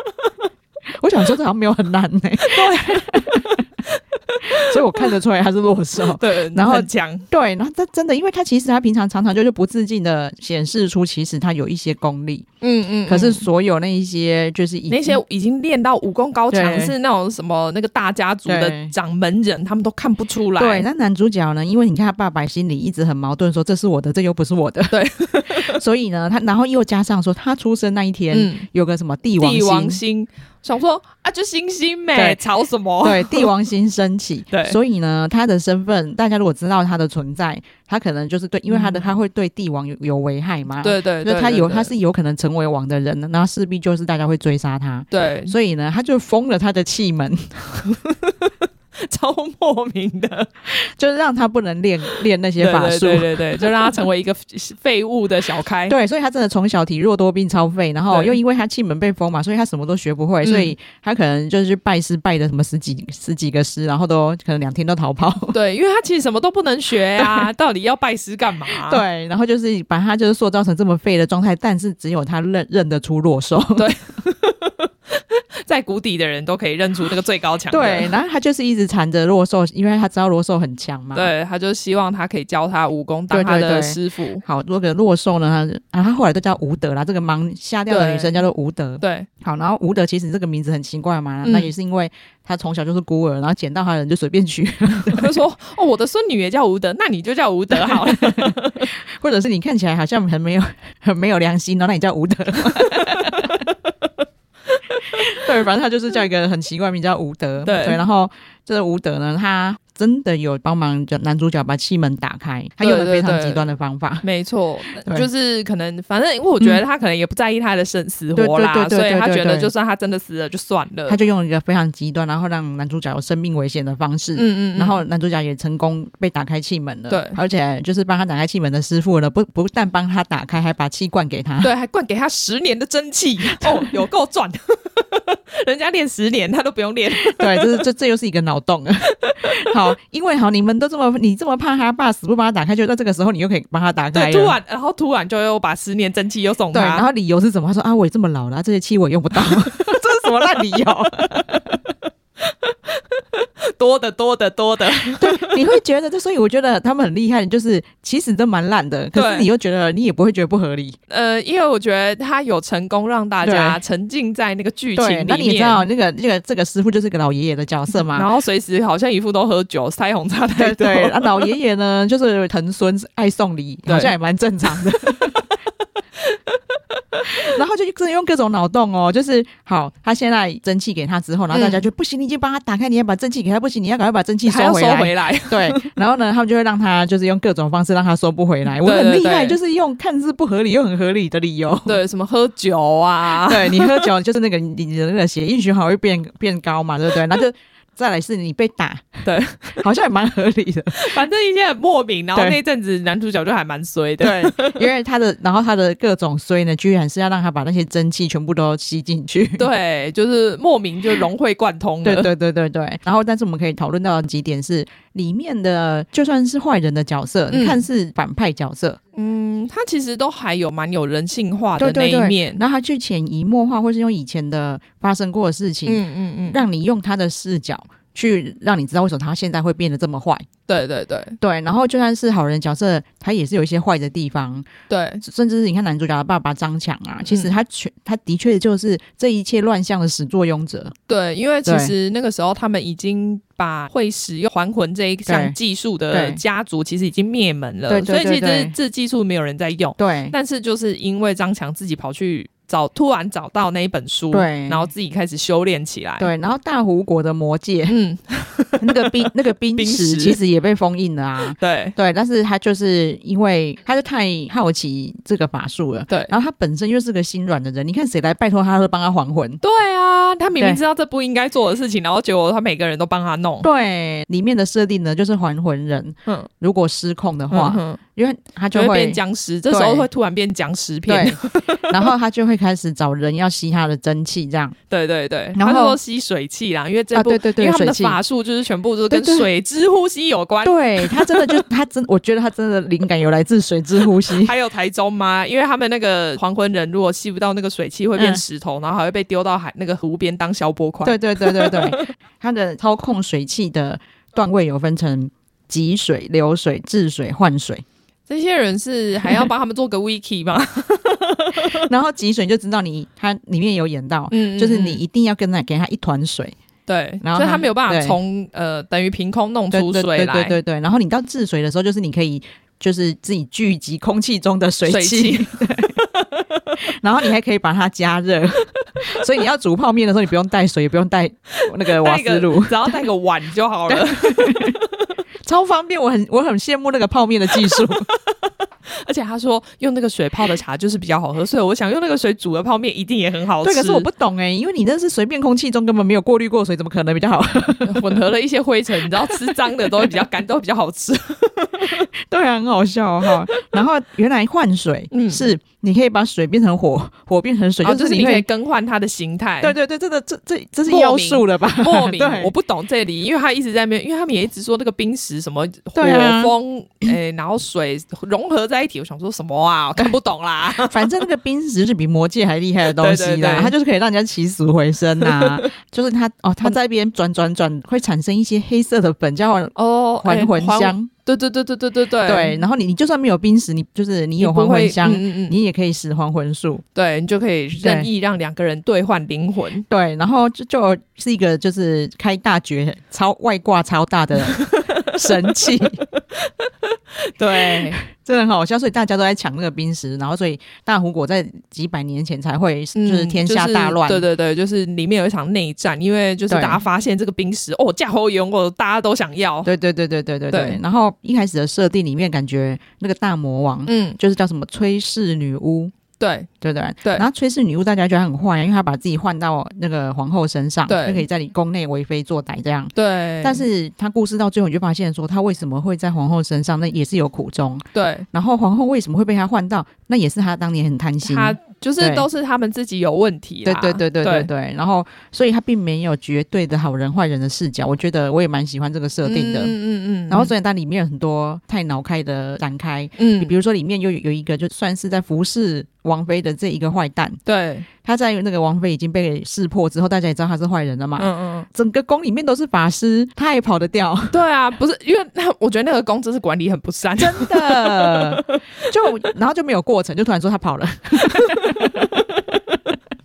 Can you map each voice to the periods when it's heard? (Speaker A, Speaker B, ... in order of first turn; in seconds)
Speaker A: 1.0-3.6, 4.5-12.5, 13.1-15.2, 16.5-16.9, 18.5-18.9, 20.6-30.0, 32.1-32.4, 33.0-47.8, 50.7-54.0, 55.9-65.6, 67.2-67.5, 68.7-73.9, 77.7-81.3, 83.3-95.3, 97.8-103.7, 105.1-114.2, 118.4-119.7, 121.1-131.7, 133.5-133.9, 137.3-144.6, 146.7-151.8, 155.2-161.0, 163.4-163.8, 165.0-168.3, 170.6-175.4, 177.2-192.0, 193.4-199.2, 199.8-201.1, 204.2-209.7, 212.0-219.0, 221.8-230.5, 231.4-234.7, 235.2-240.9, 241.7-241.9, 245.3-245.6, 246.1-246.4, 247.9-248.7, 250.0-250.3, 254.3-254.9, 256.2-257.9, 258.8-269.6, 273.6-280.1, 281.1-284.8, 285.6-286.0, 287.1-288.2, 289.1-289.5, 290.6-294.5, 301.0-307.8, 311.6-316.6, 317.2-318.2, 319.7-326.0, 327.0-333.0, 333.9-334.8, 335.4-338.1, 343.6-348.2, 349.1-350.1, 352.3-358.5, 359.6-362.5, 366.0-366.5, 370.8-381.1, 382.2-386.8, 387.8-388.1, 389.9-396.0, 397.5-404.3, 406.5-406.8, 409.6-415.9, 416.6-432.3, 433.6-439.8, 440.3-447.4, 448.0-454.4, 457.2-462.2
Speaker B: 2.5-5.1, 6.1-7.3, 12.6-13.5, 14.9-20.9, 24.9-25.8, 28.3-28.7, 29.4-33.5, 34.5-34.8, 38.7-39.0, 40.8-41.9, 45.1-45.5, 47.9-50.5, 52.6-56.0, 58.1-58.4, 60.4-60.7, 65.5-69.0, 73.8-78.2, 81.1-84.4, 87.9-88.4, 89.0-89.3, 91.4-91.7, 95.1-98.9, 102.8-103.4, 104.7-105.4, 107.6-108.0, 112.8-113.7, 114.2-121.2, 124.4-125.0, 127.1-127.4, 131.6-137.8, 139.2-139.8, 144.1-147.1, 149.4-150.8, 153.7-155.6, 159.2-159.5, 161.1-165.8, 168.1-171.5, 173.9-174.2, 181.5-181.8, 184.5-185.9, 188.8-189.6, 191.8-194.1, 199.2-199.8, 200.9-204.8, 209.6-212.3, 217.5-217.8, 219.2-222.6, 225.9-226.6, 230.7-231.4, 234.9-235.2, 241.1-256.3, 257.9-260.4, 261.6-261.9, 269.6-273.7, 277.5-278.0, 278.7-282.1, 284.9-291.6, 294.2-302.1, 308.3-311.9, 314.3-315.0, 316.9-320.6, 324.9-326.6, 331.6-334.9, 337.7-338.1, 338.9-344.1, 347.8-352.1, 355.1-355.5, 357.8-359.8, 360.9-371.2, 372.9-373.7, 375.2-375.7, 379.8-382.6, 384.4-385.6, 386.9-389.9, 394.5-395.4, 396.1-396.7, 397.2-398.0, 402.9-409.7, 410.5-410.8, 413.9-414.2, 416.2-416.5, 420.9-421.2, 422.9-423.6, 427.9-428.3, 431.2-434.5, 439.2-440.5, 443.2-443.5, 447.5-447.9, 451.2-451.7, 454.3-458.6, 461.3-462.1